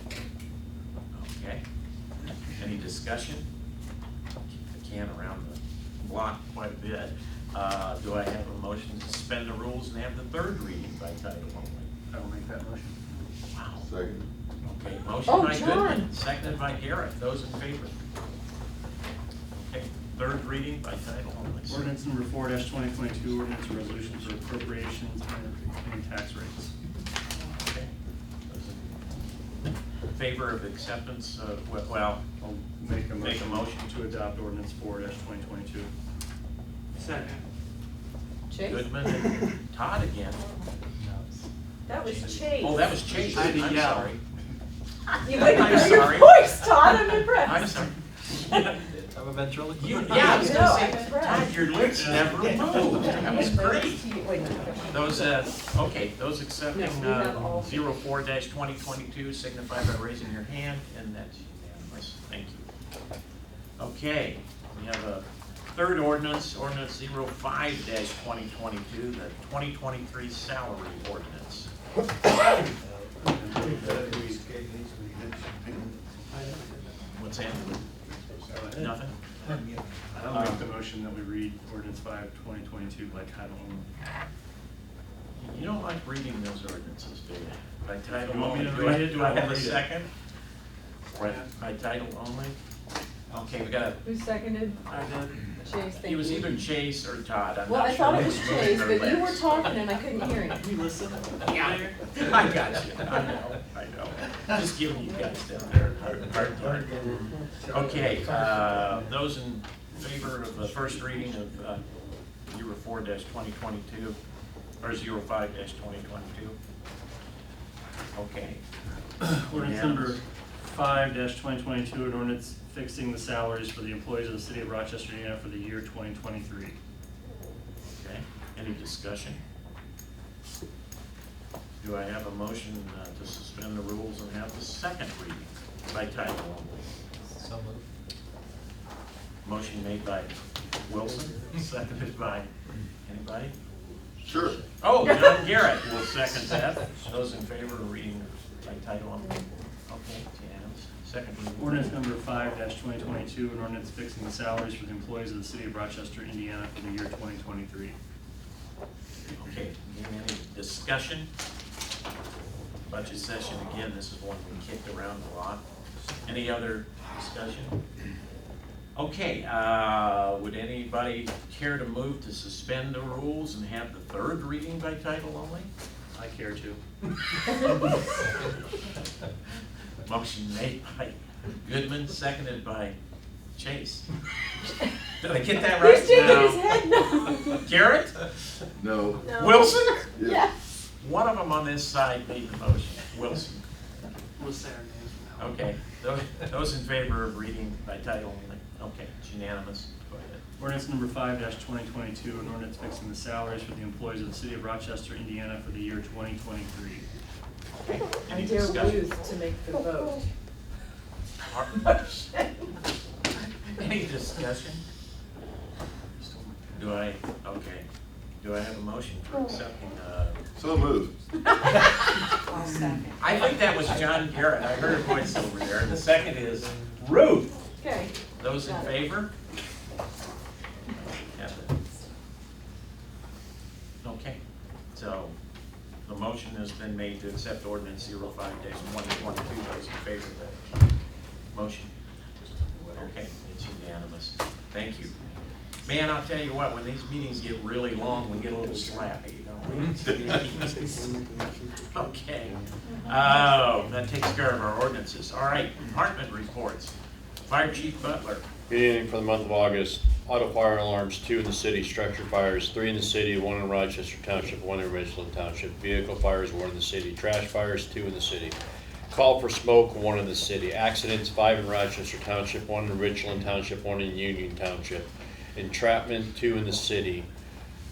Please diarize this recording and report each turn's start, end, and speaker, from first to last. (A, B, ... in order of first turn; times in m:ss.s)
0:01.1-0:01.6 A
0:02.5-0:03.5 A
0:04.5-0:11.9 A
0:12.1-0:13.0 B
0:13.5-0:13.9 A
0:13.8-0:14.2 C
0:14.6-0:17.9 A
0:15.2-0:16.1 D
0:19.5-0:21.9 A
0:21.7-0:26.7 B
0:27.5-0:27.9 A
0:28.5-0:29.0 A
0:30.1-0:32.2 A
0:32.4-0:35.9 B
0:33.2-0:33.9 A
0:37.0-0:37.3 A
0:38.5-0:38.8 D
0:38.6-0:40.5 A
0:41.0-0:41.2 E
0:41.8-0:42.8 D
0:42.2-0:44.2 A
0:43.3-0:44.0 B
0:45.2-0:47.6 D
0:45.3-0:48.0 A
0:49.1-0:50.6 E
0:49.8-0:54.1 A
0:50.1-0:52.0 D
0:51.9-0:53.2 B
0:52.9-0:55.3 D
0:54.9-1:02.6 A
0:56.7-0:57.8 D
1:03.8-1:11.7 A
1:13.2-1:14.4 B
1:13.6-1:16.8 C
1:17.1-1:17.9 A
1:18.5-1:18.9 B
1:18.7-1:19.2 A
1:19.6-1:19.9 C
1:20.1-1:23.8 B
1:20.3-1:20.6 A
1:25.4-1:30.1 A
1:28.1-1:29.8 B
1:31.1-1:32.6 A
1:33.3-1:34.0 A
1:34.0-1:36.6 D
1:34.9-1:35.5 B
1:36.0-1:39.8 A
1:37.6-1:40.7 D
1:40.6-1:41.9 B
1:41.4-1:51.8 A
1:46.4-1:48.8 C
1:47.0-1:47.2 E
1:48.0-1:48.4 E
1:52.4-1:54.2 A
1:54.8-1:56.6 A
1:58.1-1:58.6 A
1:59.2-2:06.7 B
1:59.5-2:00.2 A
2:07.9-2:09.4 A
2:11.8-2:16.8 A
2:17.4-2:17.8 E
2:19.4-2:22.5 A
2:23.0-2:23.5 A
2:24.2-2:24.6 C
2:24.8-2:31.9 A
2:31.6-2:38.0 B
2:39.3-2:41.3 A
2:42.9-2:45.6 A
2:46.2-2:47.8 A
2:49.0-2:55.7 A
2:56.1-2:56.8 B
2:57.5-2:58.0 D
3:00.0-3:03.0 A
3:03.5-3:04.1 A
3:05.1-3:06.6 A
3:05.7-3:07.6 D
3:06.1-3:06.4 B
3:07.5-3:08.2 A
3:08.8-3:09.2 C
3:09.2-3:10.5 D
3:09.4-3:10.1 A
3:10.1-3:10.4 C
3:11.0-3:14.0 A
3:14.4-3:15.6 B
3:15.4-3:20.4 A
3:20.6-3:27.0 B
3:27.8-3:29.1 A
3:28.2-3:30.3 D
3:31.4-3:32.3 A
3:33.7-3:34.8 A
3:36.2-3:36.9 B
3:36.7-3:37.8 A
3:38.4-3:40.4 A
3:40.6-3:41.1 C
3:41.5-3:43.5 D
3:43.2-3:47.6 A
3:47.8-3:48.9 D
3:48.4-3:49.3 A
3:51.0-3:51.7 A
3:54.0-3:54.4 A
3:54.9-3:55.3 A
3:56.0-4:00.6 A
4:01.5-4:01.9 A
4:02.9-4:05.2 A
4:05.8-4:11.0 A
4:09.8-4:11.9 C
4:11.9-4:16.9 A
4:17.4-4:18.5 A
4:18.7-4:28.6 F
4:29.1-4:37.3 F